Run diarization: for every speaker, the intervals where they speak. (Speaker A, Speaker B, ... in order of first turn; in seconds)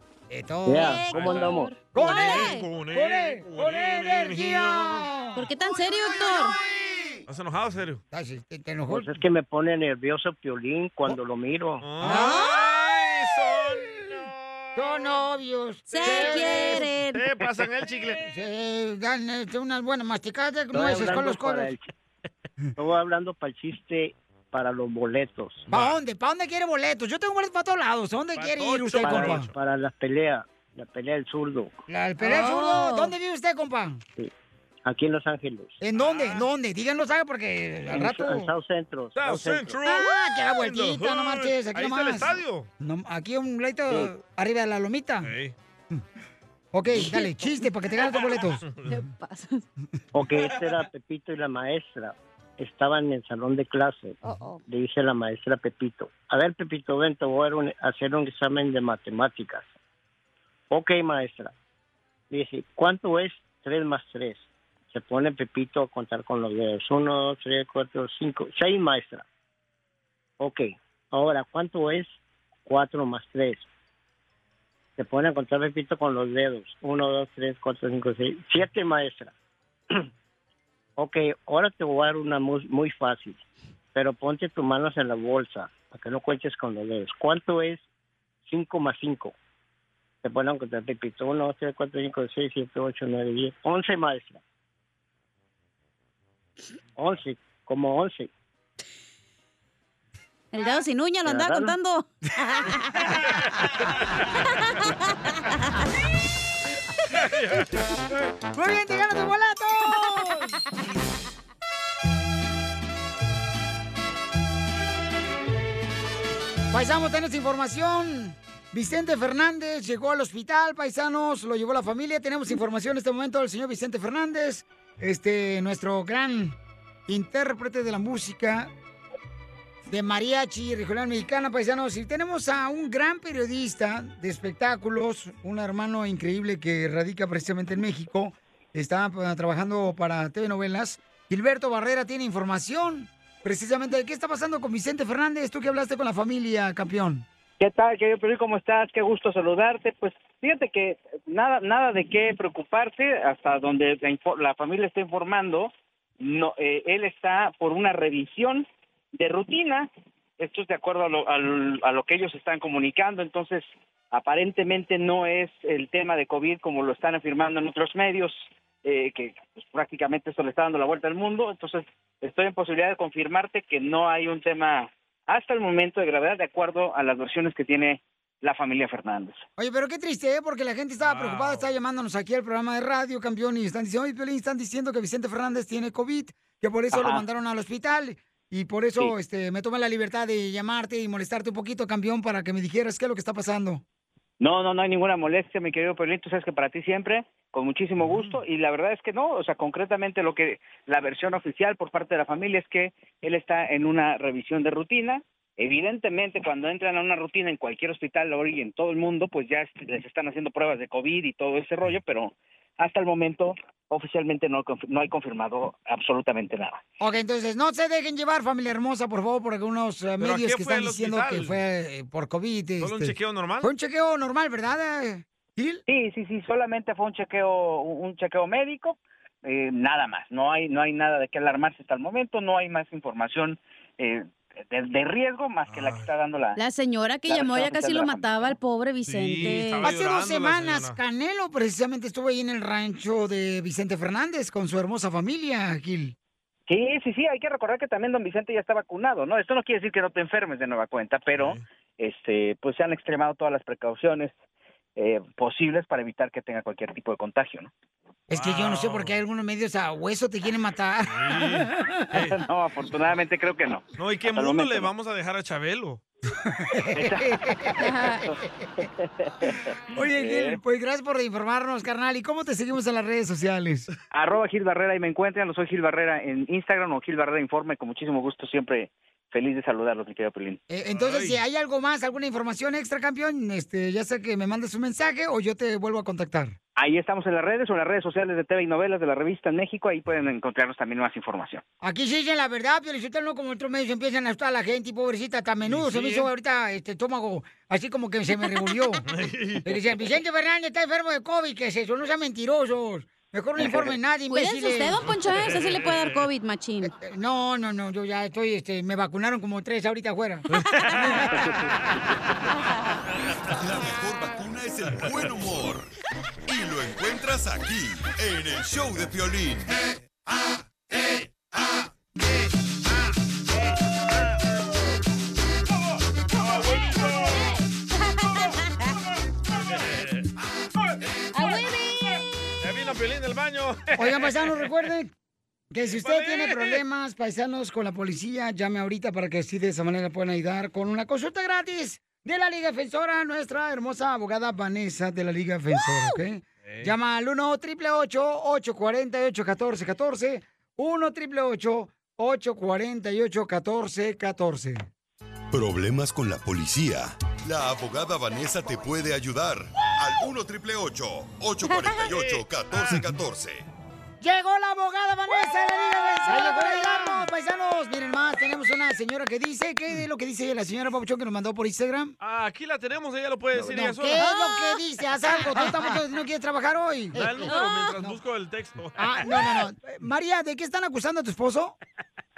Speaker A: 0.3-1.1, 1.9-5.4, 8.1-9.2, 12.0-12.6, 14.8-16.9, 18.2-21.8, 25.7-29.5, 31.9-34.0, 35.8-38.5, 39.8-45.3, 46.7-48.6, 108.5-110.6, 116.7-128.7, 129.9-147.2, 179.6-193.8, 217.0-225.8, 239.8-246.1, 258.3-262.3, 266.4-267.9, 269.9-273.9, 280.7-286.6, 291.8-299.0, 299.6-305.0, 306.9-311.7, 333.9-335.1, 335.7-354.8, 364.2-372.1, 373.6-378.1, 379.0-381.7
Speaker B: 0.7-1.7, 8.9-11.9, 20.7-21.9, 22.8-25.7, 29.0-31.7, 34.9-35.8, 37.9-39.8, 50.1-59.7, 60.7-61.5, 62.3-69.2, 70.4-73.7, 75.0-79.3, 81.0-83.4, 83.9-87.8, 88.5-89.3, 90.2-94.4, 97.0-98.3, 101.2-101.7
Speaker C: 0.8-2.7, 5.3-6.5, 12.0-12.6, 15.9-17.2, 32.2-33.1, 47.1-47.6, 48.8-49.6, 54.2-54.6, 100.5-103.1, 104.4-105.0, 236.6-239.9, 267.8-268.2, 304.3-306.9, 328.1-328.5, 331.3-332.2, 374.2-374.6, 377.4-377.9
Speaker D: 1.1-5.1, 6.5-8.0, 11.8-15.2, 15.9-18.2, 25.7-26.0, 28.3-29.5, 36.0-36.5, 39.1-42.7, 45.2-45.5, 48.6-48.9, 107.1-107.9, 181.0-181.7, 198.0-198.3, 220.2-221.6, 222.8-223.7, 235.7-236.1, 239.1-240.9, 251.3-251.6, 258.3-259.2, 261.1-262.4, 264.0-266.0, 280.9-281.4, 295.6-296.3, 299.1-299.8, 310.5-310.9, 321.0-321.2, 326.4-327.5, 329.5-330.3, 332.6-334.7, 335.9-336.8, 346.6-346.9, 362.0-362.4, 372.2-374.3, 377.1-379.7
Speaker E: 147.6-179.4, 186.9-187.2, 194.4-216.8, 225.9-236.6, 237.3-238.6, 246.7-254.4, 254.9-257.7, 262.3-264.9, 266.9-270.6, 274.1-280.6, 286.8-291.6
Speaker F: 313.5-315.9, 316.5-319.8, 355.5-363.6